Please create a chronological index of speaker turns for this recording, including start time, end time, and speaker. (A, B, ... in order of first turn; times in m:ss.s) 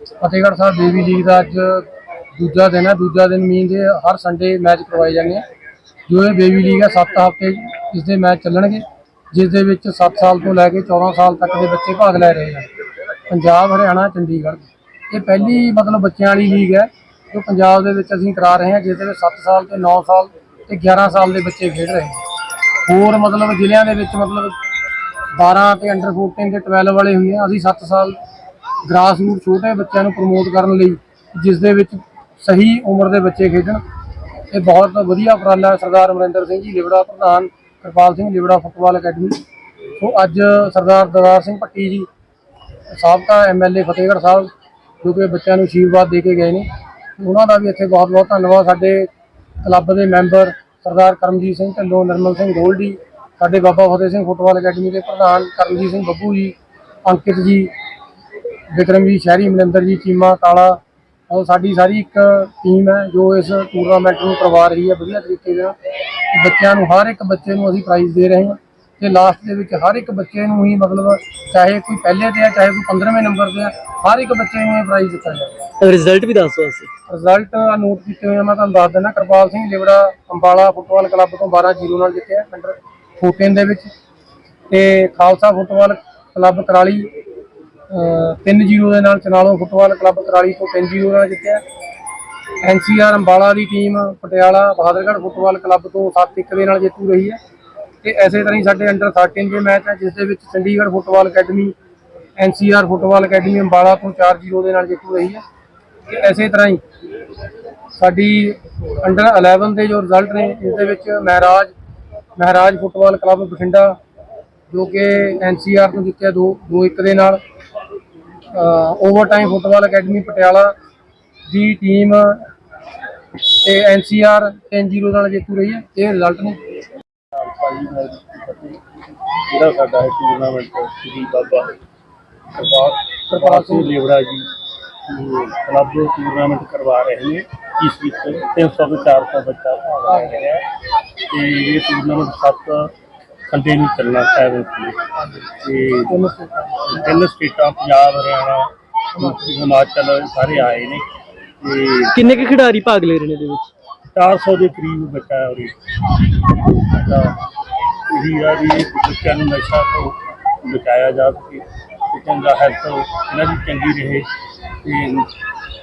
0:00.2-0:05.4 A
0:06.1-0:12.7 A
0:13.3-0:22.2 A
0:22.8-0:24.6 A
0:25.4-0:28.2 A
0:28.8-0:33.8 A
0:34.5-0:39.4 A
0:40.0-0:42.1 A
0:42.9-0:46.7 A
0:47.2-0:49.1 A
0:49.6-0:57.7 A
0:58.7-1:05.8 A
1:06.3-1:15.6 A
1:15.8-1:16.9 B
1:17.1-1:23.9 A
1:24.7-1:27.1 A
1:27.9-1:31.6 A
1:32.6-1:37.4 A
1:38.0-1:41.7 A
1:42.4-1:45.4 A
1:46.1-1:46.8 A
1:47.9-1:51.7 A
1:52.4-1:54.0 A
1:54.7-1:57.4 A
1:58.5-2:00.7 A
2:01.5-2:02.5 A
2:03.5-2:06.8 A
2:07.3-2:08.8 C
2:09.5-2:11.8 C
2:12.5-2:14.5 C
2:13.3-2:13.9 A
2:15.1-2:20.7 C
2:20.1-2:20.4 A
2:21.3-2:22.9 C
2:23.5-2:26.3 C
2:26.1-2:27.0 A
2:26.8-2:31.1 C
2:31.6-2:32.3 C
2:32.1-2:33.7 B
2:34.1-2:37.4 C
2:38.1-2:44.3 C
2:44.8-2:45.3 C